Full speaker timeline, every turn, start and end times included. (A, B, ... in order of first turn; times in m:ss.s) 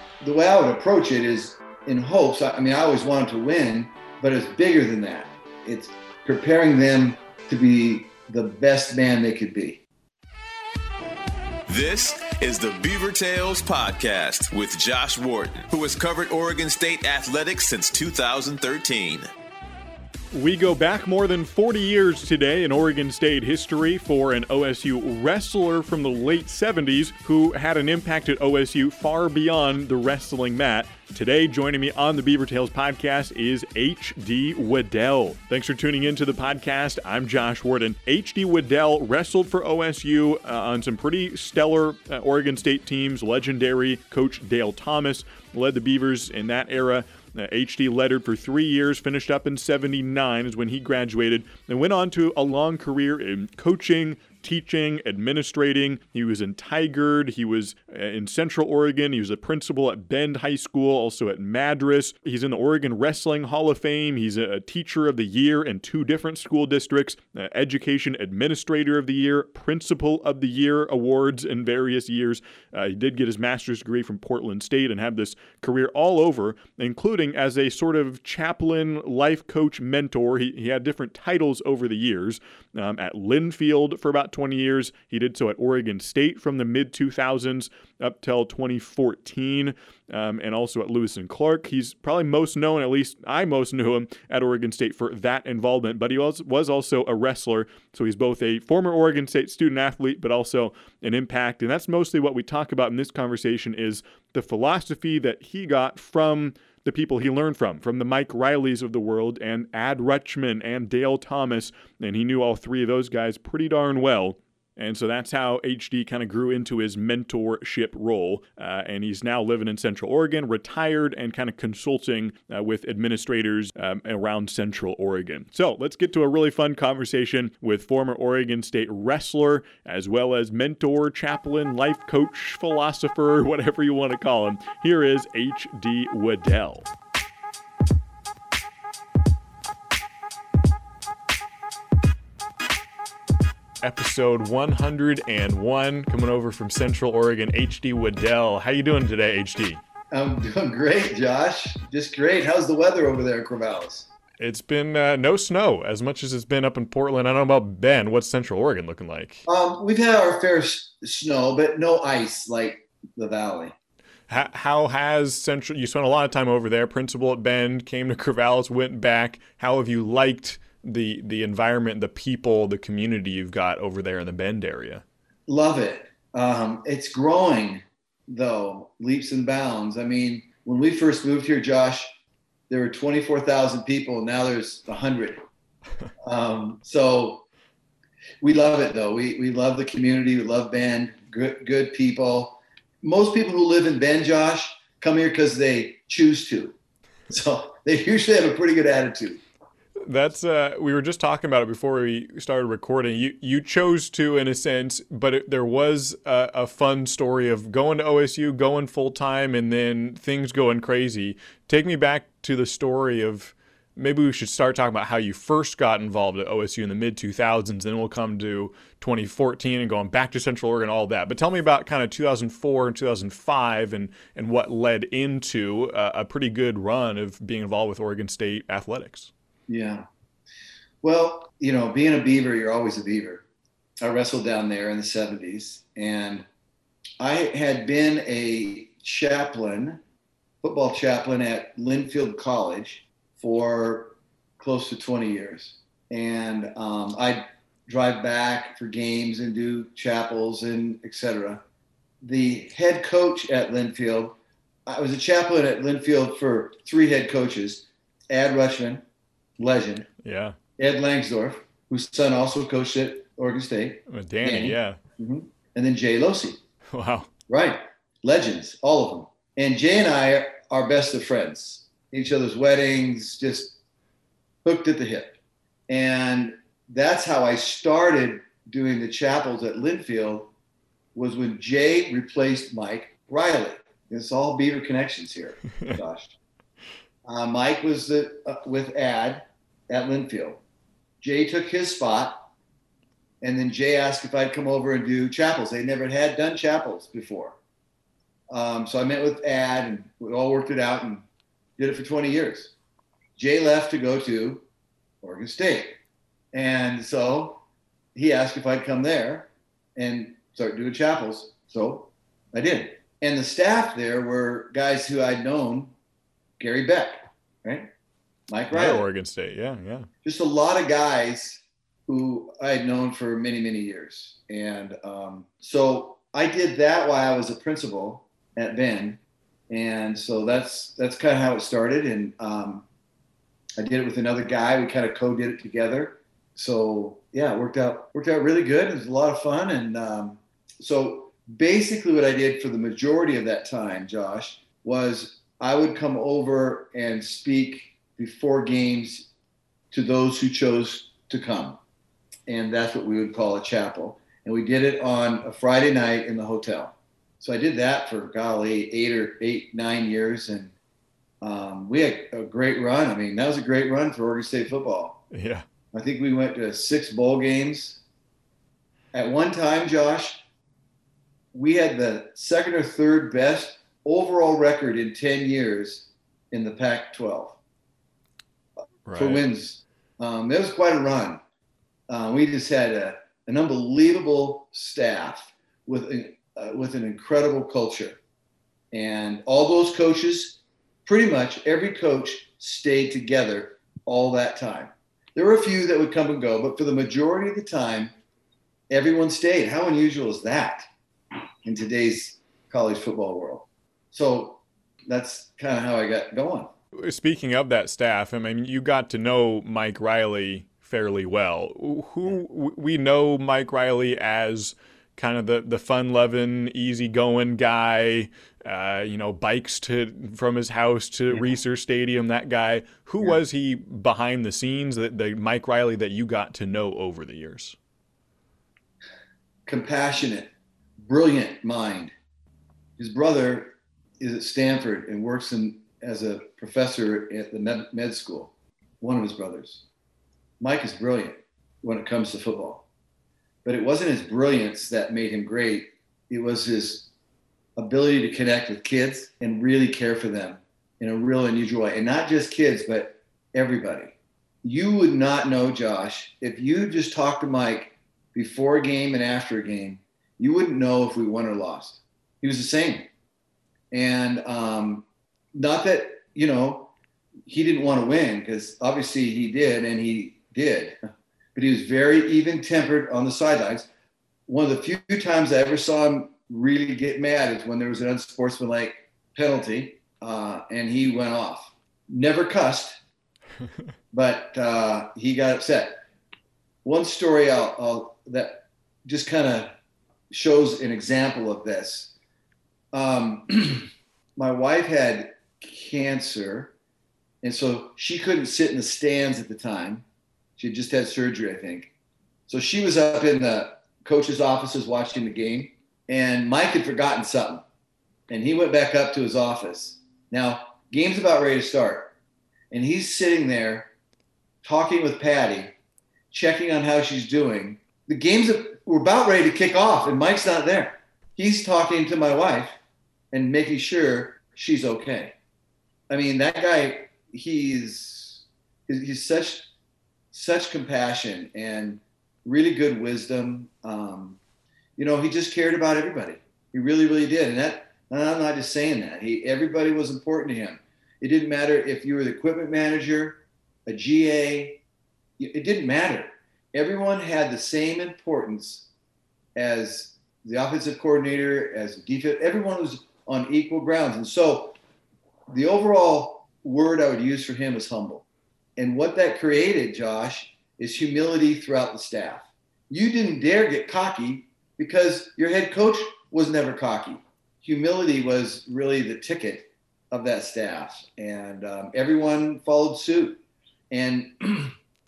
0:00.2-0:09.8 A
0:11.7-0:19.3 B
0:20.3-2:16.9 C
2:23.8-2:29.8 C
2:30.1-2:34.1 A
2:34.4-2:39.5 C
2:39.5-2:43.8 A
2:44.3-2:55.0 C
2:55.5-3:02.2 A
3:02.7-3:05.4 A
3:06.2-3:07.4 A
3:08.4-3:16.8 A
3:17.3-3:19.4 A
3:20.1-3:49.3 C
3:49.7-3:50.1 A
3:51.0-3:53.4 A
3:54.0-3:56.5 A
3:57.2-4:00.0 A
4:00.6-4:11.6 A
4:12.2-4:19.0 A
4:19.6-4:20.1 A
4:20.2-4:20.6 C
4:20.8-4:26.6 A
4:24.1-4:25.0 C
4:26.9-4:27.3 C
4:27.5-4:33.8 A
4:34.6-4:35.4 A
4:35.9-4:40.5 A
4:41.2-4:46.4 A
4:47.3-4:50.6 A
4:51.2-4:52.5 A
4:53.4-4:57.6 A
4:58.5-5:01.3 A
5:01.8-5:02.7 A
5:03.4-5:04.6 A
5:05.2-5:06.0 A
5:06.5-5:07.6 A
5:08.2-5:15.9 A
5:16.6-5:17.9 A
5:18.5-5:19.0 A
5:18.7-5:20.1 C
5:20.2-5:32.8 A
5:33.8-5:49.3 A
5:49.9-5:51.8 A
5:52.5-6:00.7 A
6:01.4-6:05.2 A
6:05.3-6:05.6 C
6:05.9-6:08.0 A
6:09.1-6:10.4 A
6:11.5-6:17.6 A
6:19.1-6:19.4 C
6:19.2-6:21.4 A
6:22.1-6:28.2 A
6:28.9-6:38.1 A
6:38.9-6:40.9 A
6:41.6-6:46.7 A
6:47.0-7:07.8 C
7:09.7-7:10.5 A
7:11.0-7:12.1 A
7:13.0-7:19.8 A
7:20.6-7:22.8 A
7:23.6-7:27.1 A
7:27.8-7:43.1 A
7:43.9-7:46.9 A
7:47.5-7:51.0 A
7:51.6-7:53.9 A
7:54.5-8:03.0 A
8:04.1-8:06.0 A
8:06.8-8:09.8 A
8:10.3-8:12.1 A
8:12.9-8:16.7 A
8:17.4-8:20.0 A
8:20.6-8:21.9 A
8:22.5-8:27.6 A
8:28.3-8:32.1 A
8:32.7-8:33.9 A
8:34.6-8:35.7 A
8:36.3-8:42.8 A
8:43.3-8:45.3 A
8:46.1-8:49.7 A
8:50.3-8:54.4 A
8:55.0-9:04.8 A
9:05.4-9:08.9 A
9:09.6-9:14.8 A
9:15.5-9:18.2 A
9:18.8-9:33.4 A
9:33.9-9:34.8 A